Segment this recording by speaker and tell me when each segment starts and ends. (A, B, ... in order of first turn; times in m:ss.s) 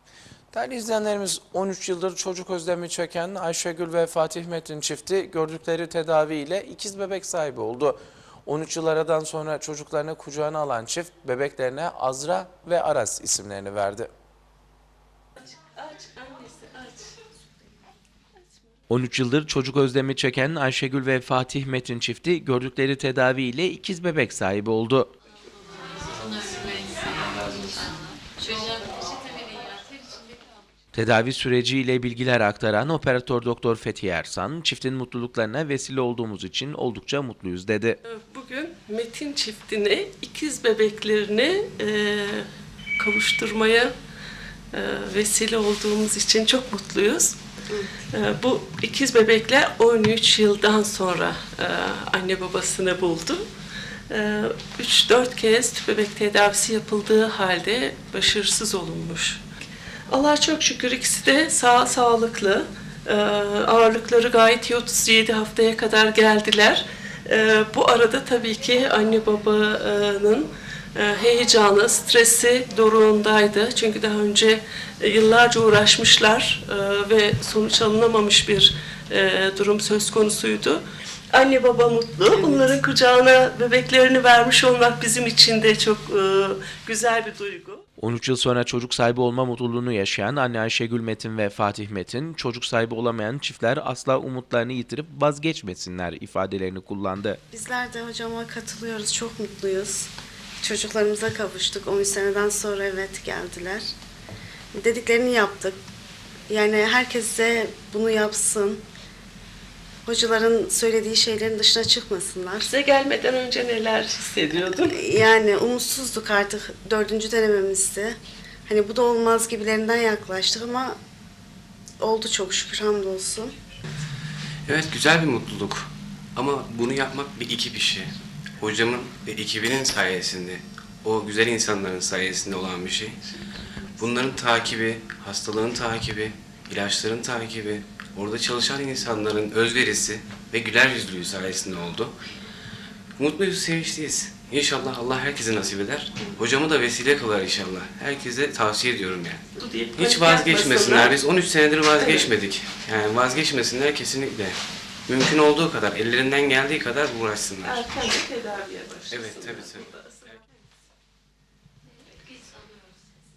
0:00.5-0:14.1 A
0:15.7-0:17.1 B
0:18.9-0:25.1 C
0:30.9-0:38.0 C
0:38.0-0:42.5 B
0:43.0-0:43.9 B
0:44.7-0:47.4 B
0:48.1-0:53.4 B
0:54.1-0:59.4 B
1:00.1-1:27.8 B
1:22.3-1:22.8 D
1:28.0-1:37.4 C
1:37.5-1:40.1 D
1:40.6-1:43.8 D
1:44.7-1:45.8 D
1:46.5-1:48.8 D
1:50.0-1:52.7 D
1:52.6-1:55.0 B
1:54.9-2:01.0 D
2:02.0-2:03.5 D
2:04.6-2:13.2 E
2:14.0-2:22.1 E
2:23.2-2:29.4 E
2:29.6-2:31.2 B
2:30.0-2:38.2 E
2:31.8-2:32.3 B
2:37.6-2:40.3 B
2:39.1-2:39.9 E